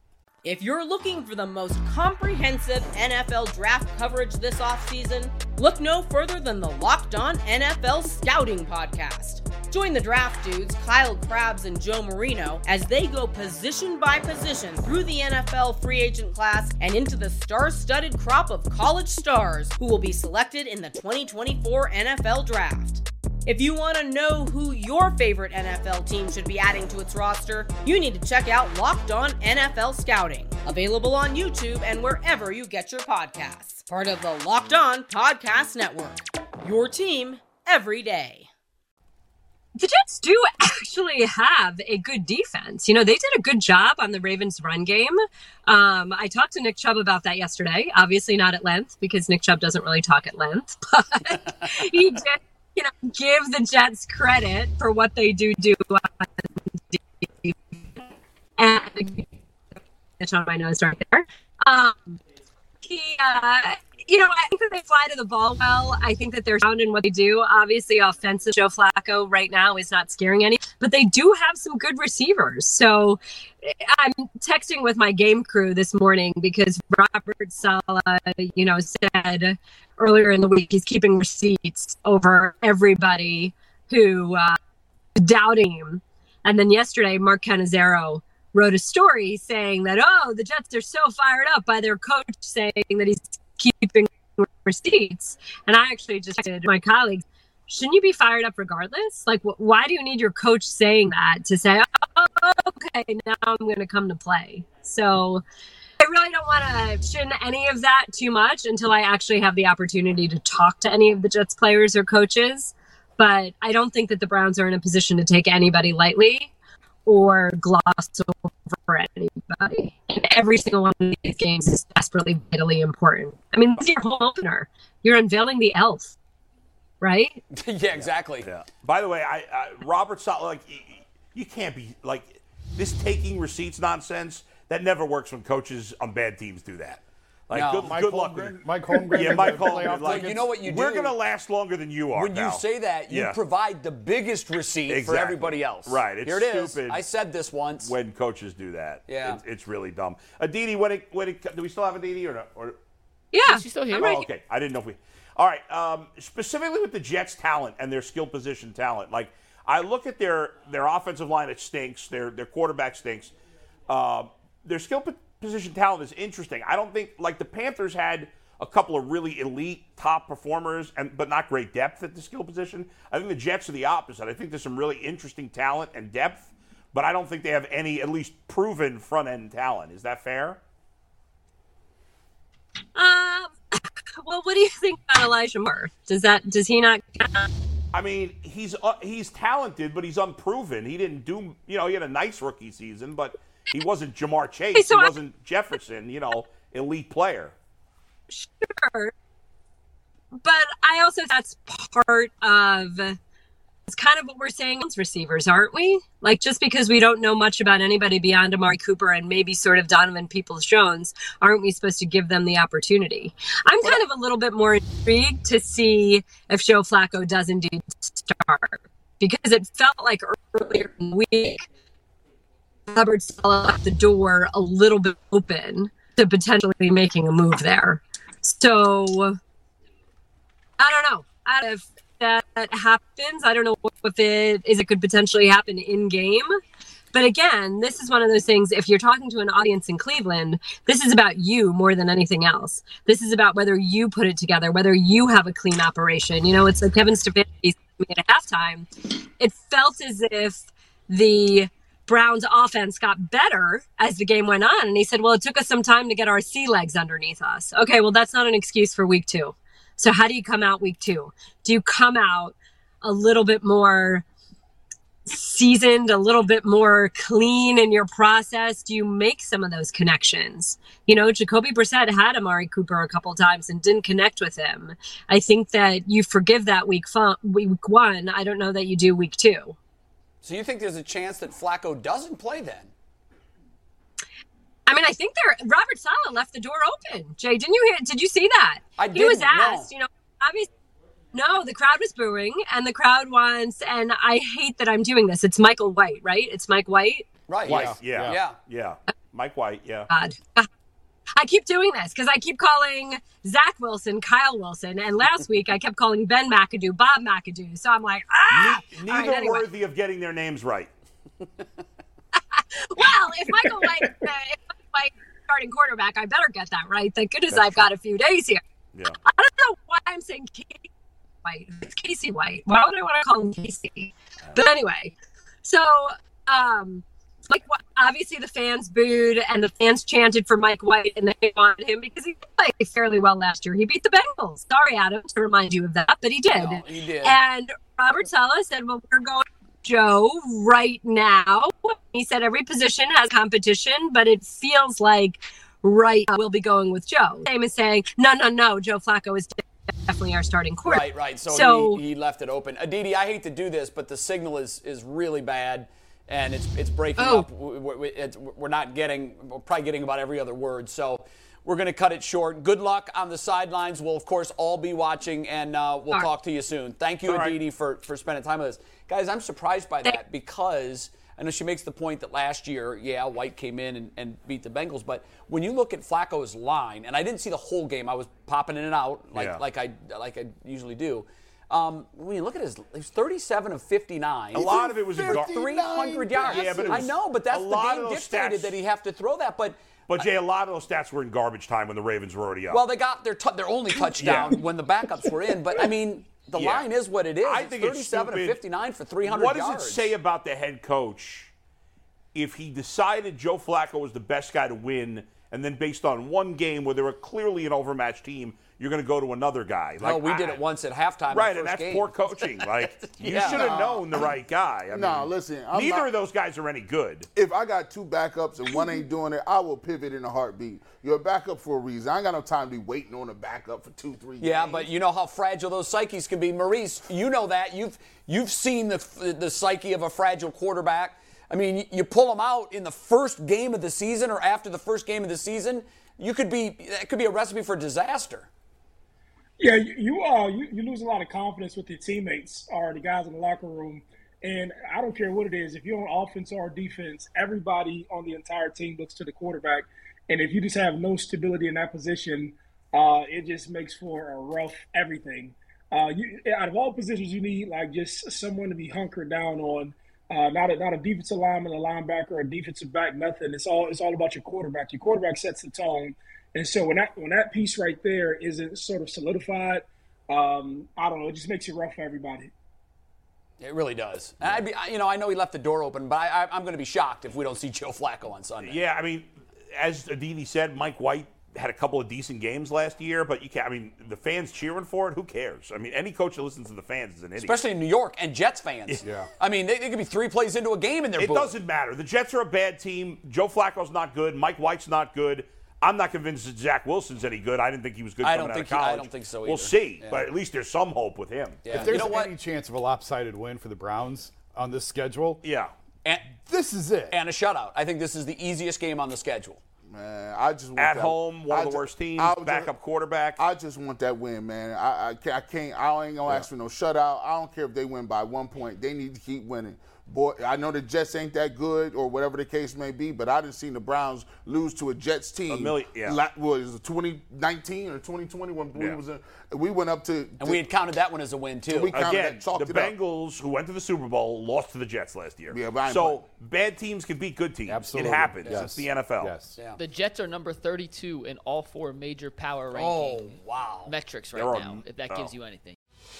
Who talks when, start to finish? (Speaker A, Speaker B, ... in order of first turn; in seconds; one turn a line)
Speaker A: 0.4-38.5
Speaker B: 39.8-58.0
Speaker B: 58.6-59.3
Speaker B: 60.2-62.2
Speaker B: 62.8-84.6
Speaker B: 85.2-105.4
Speaker B: 106.0-116.5
Speaker B: 117.0-126.2
Speaker B: 127.0-127.4
Speaker C: 127.5-128.5
Speaker D: 128.0-138.6
Speaker C: 137.5-137.9
Speaker E: 137.8-140.5
Speaker D: 139.1-143.4
Speaker C: 139.2-141.2
Speaker C: 142.1-147.9
Speaker D: 144.9-147.0
Speaker D: 147.8-152.8
Speaker C: 149.1-149.4
Speaker B: 153.3-154.3
Speaker F: 153.4-154.2
Speaker D: 153.9-163.3
Speaker D: 163.9-180.6
Speaker B: 182.9-187.5
Speaker D: 187.9-197.5
Speaker B: 194.7-195.1
Speaker B: 198.3-199.1
Speaker B: 200.4-203.2
Speaker B: 203.9-221.7
Speaker B: 222.9-229.4
Speaker B: 230.8-236.6
Speaker B: 237.1-264.2
Speaker B: 265.2-279.8
Speaker C: 280.4-282.9
Speaker B: 284.9-290.7
Speaker C: 289.0-289.9
Speaker B: 291.3-297.3
Speaker C: 297.5-298.6
Speaker E: 297.6-298.4
Speaker D: 297.7-300.1
Speaker B: 300.1-300.7
Speaker B: 301.4-309.7
Speaker D: 308.5-310.9
Speaker B: 312.3-318.6
Speaker D: 317.5-317.8
Speaker B: 319.2-320.8
Speaker B: 321.4-352.0
Speaker C: 336.5-337.4
Speaker C: 350.8-389.8
Speaker B: 357.2-357.4
Speaker D: 367.2-367.6
Speaker D: 379.3-379.6
Speaker D: 384.5-385.5
Speaker G: 384.6-387.1
Speaker D: 386.4-388.7
Speaker D: 390.1-392.8
Speaker C: 392.7-400.1
Speaker D: 394.2-394.6
Speaker D: 396.6-396.9
Speaker D: 397.4-398.6
Speaker D: 399.2-401.5
Speaker D: 402.3-410.6
Speaker C: 410.0-413.8
Speaker D: 411.3-417.3
Speaker G: 413.4-414.3
Speaker G: 414.9-416.1
Speaker G: 417.3-424.9
Speaker C: 424.4-438.5
Speaker H: 439.6-472.5
Speaker C: 473.6-478.8
Speaker D: 478.6-487.6
Speaker C: 487.4-491.6
Speaker E: 489.0-489.3
Speaker D: 491.2-502.0
Speaker C: 498.2-500.3
Speaker C: 501.6-502.3
Speaker E: 501.7-505.4
Speaker D: 505.4-505.7
Speaker C: 506.0-506.3
Speaker E: 506.2-507.2
Speaker C: 507.1-509.6
Speaker G: 509.9-512.7
Speaker D: 510.8-513.4
Speaker G: 513.4-530.6
Speaker D: 525.5-526.2
Speaker C: 530.4-531.9
Speaker G: 531.7-532.9
Speaker D: 531.9-539.3
Speaker G: 535.5-536.2
Speaker E: 537.7-539.6
Speaker C: 538.4-538.7
Speaker F: 539.8-545.8
Speaker C: 542.7-543.9
Speaker D: 544.3-545.3